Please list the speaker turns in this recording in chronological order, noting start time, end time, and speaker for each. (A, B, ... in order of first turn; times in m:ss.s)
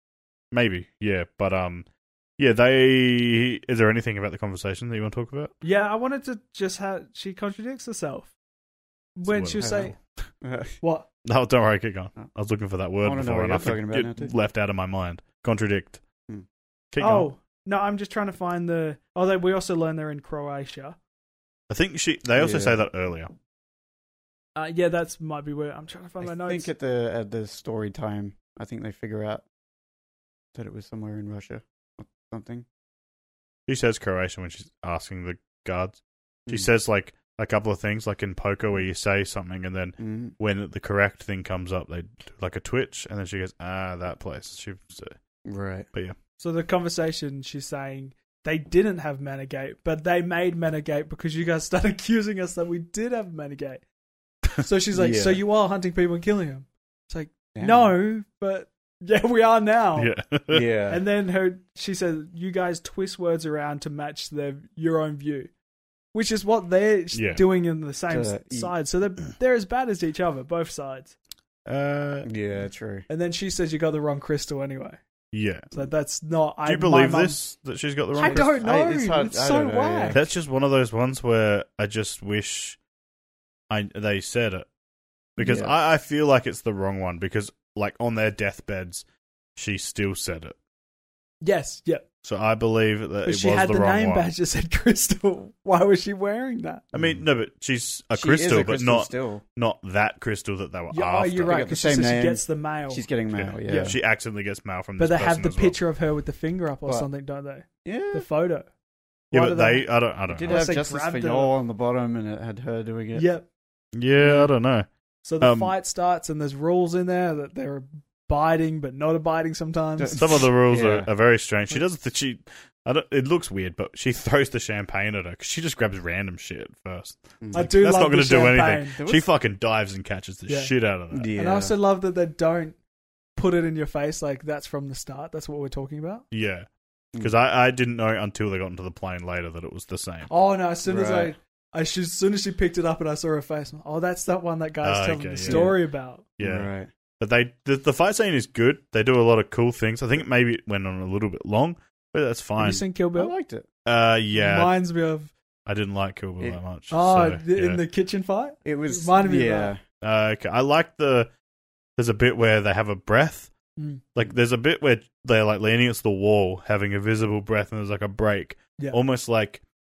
0:00.5-0:01.8 A
0:02.4-0:05.5 A
0:05.6-0:08.3 B
0:09.2-0:09.9 B
0:09.2-0:10.0 A
0:09.6-0:10.8 C
0:10.8-0:11.1 B
0:11.2-0:16.0 A
0:13.0-0:14.3 C
0:16.9-0:17.3 A
0:17.0-0:21.0 B
0:21.7-0:23.3 A
0:22.4-0:22.8 C
0:24.6-0:26.7 B
0:26.2-0:29.4 C
0:30.5-0:32.6 C
0:33.7-0:45.2 A
0:40.0-0:40.3 C
0:45.4-0:45.9 C
0:46.4-0:53.8 B
0:54.6-1:00.1 B
0:54.9-0:55.4 C
0:57.5-0:57.9 C
1:00.0-1:00.6 A
1:00.5-1:01.0 C
1:00.9-1:05.5 B
1:06.1-1:11.1 B
1:07.1-1:07.4 A
1:08.1-1:08.7 C
1:11.6-1:12.3 A
1:12.2-1:13.0 C
1:13.1-1:15.0 B
1:15.3-1:15.7 A
1:15.7-1:17.4 B
1:16.6-1:18.6 A
1:18.1-1:20.2 B
1:18.2-1:20.2 C
1:20.1-1:22.8 A
1:23.7-1:24.7 A
1:25.4-1:25.7 C
1:25.4-1:29.0 A
1:29.6-1:30.6 A
1:31.4-1:32.0 B
1:32.2-1:34.3 A
1:33.2-1:36.8 B
1:36.9-1:37.2 C
1:36.9-1:41.6 A
1:38.1-1:39.4 C
1:40.9-1:43.1 B
1:41.4-1:44.0 C
1:43.3-1:45.8 A
1:43.6-1:43.9 B
1:45.0-1:48.7 B
1:47.8-1:48.2 C
1:49.3-1:49.9 B
1:49.3-1:50.6 A
1:50.3-1:53.2 C
1:50.4-1:51.5 B
1:53.1-1:53.5 B
1:53.9-1:54.9 A
1:54.2-1:54.5 C
1:55.2-2:00.2 B
1:55.4-1:55.7 A
2:00.0-2:01.1 C
2:00.1-2:11.3 A
2:07.4-2:07.7 C
2:07.5-2:09.0 B
2:09.0-2:09.3 C
2:10.5-2:10.7 B
2:11.1-2:11.7 C
2:11.3-2:12.8 B
2:13.4-2:16.2 B
2:16.3-2:16.7 A
2:17.2-2:20.3 A
2:20.3-2:26.3 B
2:20.8-2:21.3 C
2:24.8-2:25.8 A
2:25.4-2:25.8 C
2:26.4-2:32.8 A
2:26.4-2:26.9 C
2:32.6-2:33.3 B
2:33.2-2:33.7 C
2:33.8-2:34.7 A
2:34.3-2:35.3 B
2:35.6-2:37.8 A
2:36.9-2:39.7 B
2:38.6-2:39.8 C
2:40.0-2:41.3 A
2:42.0-2:43.5 A
2:43.8-2:44.0 B
2:44.1-2:49.6 A